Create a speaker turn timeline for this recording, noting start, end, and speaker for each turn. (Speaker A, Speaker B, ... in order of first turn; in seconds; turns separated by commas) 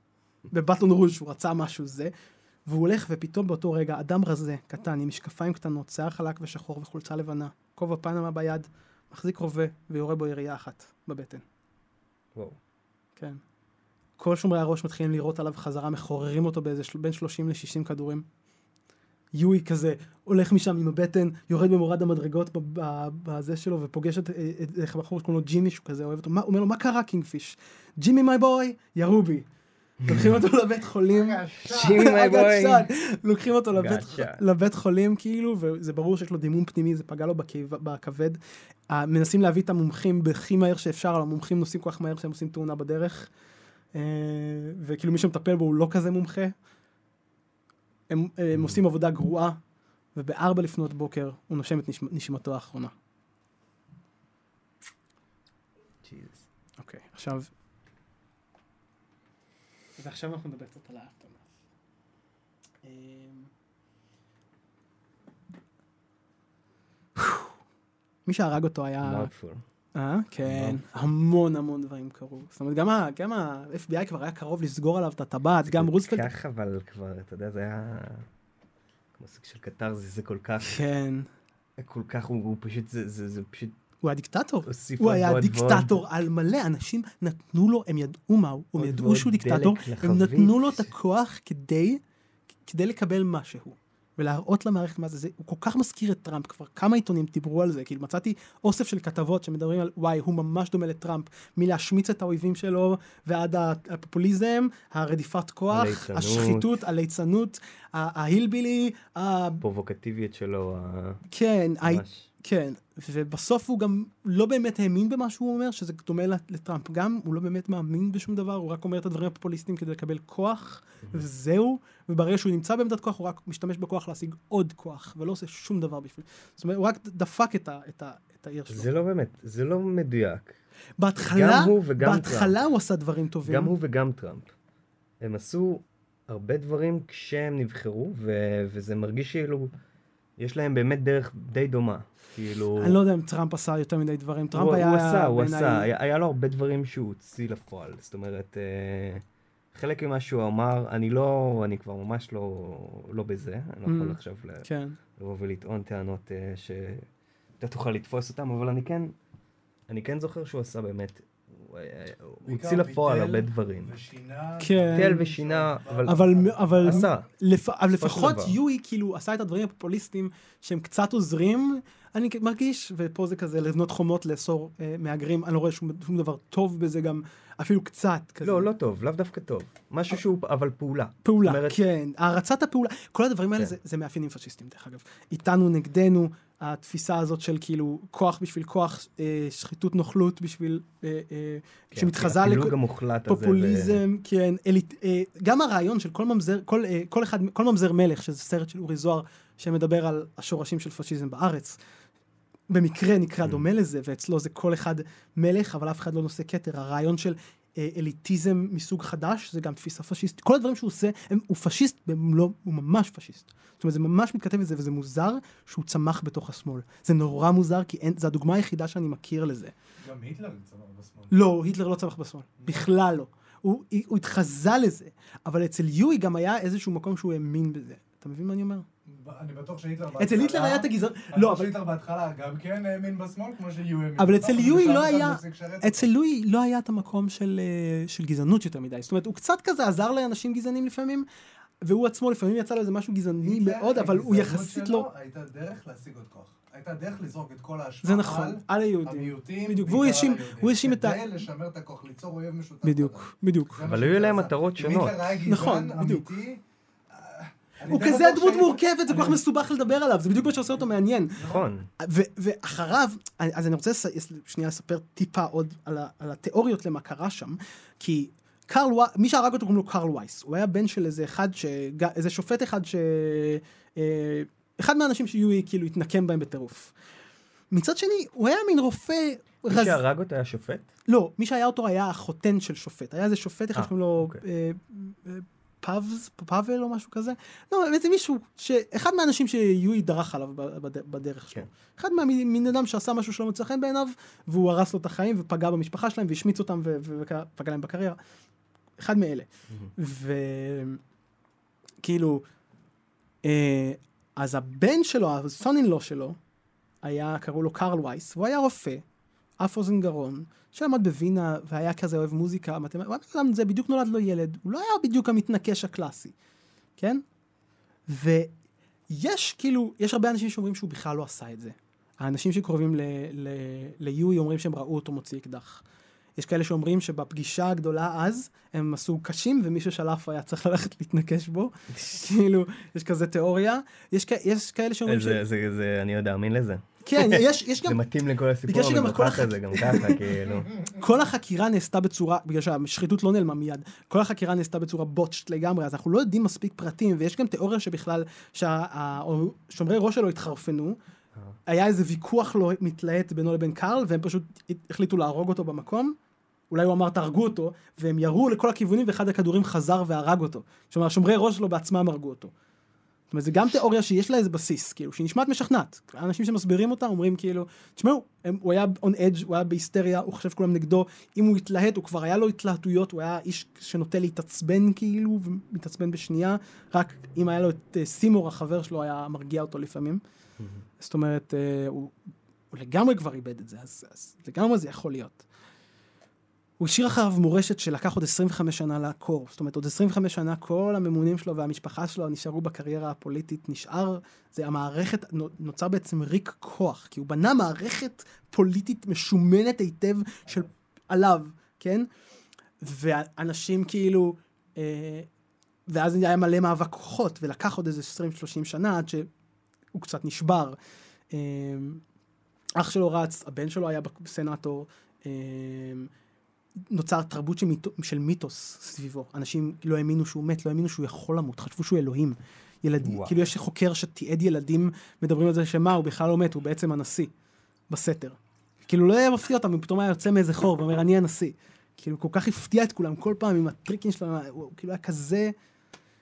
Speaker A: 0.5-2.1, Speaker A: 2.7-11.4, Speaker A: 14.2-18.2, Speaker A: 19.3-29.5, Speaker B: 30.0-30.4, Speaker A: 30.1-43.3, Speaker C: 31.1-32.1, Speaker B: 31.6-32.9, Speaker B: 33.7-34.4, Speaker A: 43.9-46.5, Speaker A: 48.1-49.6, Speaker A: 50.1-52.9, Speaker B: 56.0-56.5, Speaker A: 56.8-57.5, Speaker A: 60.0-61.5, Speaker A: 62.8-63.5, Speaker A: 67.2-67.5, Speaker A: 68.3-69.3, Speaker B: 69.0-69.7, Speaker A: 70.0-76.3, Speaker B: 70.4-70.8, Speaker B: 75.7-78.3, Speaker B: 79.2-80.8, Speaker A: 80.6-81.3, Speaker B: 81.8-83.8, Speaker A: 84.0-92.0, Speaker B: 84.7-86.0, Speaker B: 88.8-90.9, Speaker A: 92.7-109.6, Speaker B: 105.7-106.8, Speaker B: 109.6-111.2, Speaker A: 111.3-128.9, Speaker B: 111.8-112.3, Speaker B: 128.7-130.6, Speaker A: 131.0-133.7, Speaker B: 131.3-132.6, Speaker B: 133.4-134.5, Speaker B: 135.2-139.7, Speaker B: 140.4-143.0, Speaker A: 142.8-145.9, Speaker B: 144.5-154.7, Speaker A: 153.9-155.0, Speaker B: 155.2-157.1, Speaker B: 157.6-159.1, Speaker B: 159.9-163.9, Speaker C: 162.4-167.1, Speaker A: 164.6-165.2, Speaker B: 164.9-166.2, Speaker A: 166.1-178.7, Speaker B: 166.8-167.3, Speaker B: 168.0-168.6, Speaker B: 178.4-181.8, Speaker A: 181.2-201.8, Speaker B: 191.9-194.0, Speaker A: 202.7-219.7, Speaker C: 220.0-221.3, Speaker A: 221.3-228.8, Speaker C: 222.6-222.9, Speaker C: 229.1-236.1, Speaker A: 230.2-231.7, Speaker A: 234.2-241.3, Speaker A: 241.8-245.1, Speaker C: 243.4-256.6, Speaker A: 248.0-251.3, Speaker A: 252.8-253.8, Speaker B: 253.8-255.3, Speaker A: 255.5-256.3, Speaker C: 257.1-259.4, Speaker A: 257.9-276.9, Speaker C: 261.4-261.6, Speaker B: 261.4-261.9, Speaker A: 277.7-280.0, Speaker B: 279.7-280.9, Speaker A: 281.1-298.2, Speaker B: 283.8-284.4, Speaker A: 299.0-301.0, Speaker A: 302.0-302.4, Speaker A: 303.4-306.4, Speaker A: 307.0-309.1, Speaker A: 309.6-316.3, Speaker A: 317.0-317.2, Speaker A: 318.1-318.5, Speaker A: 319.1-325.9, Speaker A: 326.4-335.4, Speaker B: 335.1-340.7, Speaker A: 337.1-338.0, Speaker A: 338.6-340.2, Speaker A: 340.9-351.0, Speaker A: 351.7-356.2, Speaker A: 356.7-362.5, Speaker A: 363.3-380.2, Speaker A: 381.0-382.1, Speaker A: 382.7-385.4, Speaker A: 386.8-402.1, Speaker A: 402.8-405.3, Speaker A: 405.9-409.3, Speaker A: 409.9-410.8, Speaker A: 411.3-412.0, Speaker A: 412.8-416.1, Speaker A: 416.9-427.3, Speaker B: 423.0-423.4, Speaker A: 427.9-435.5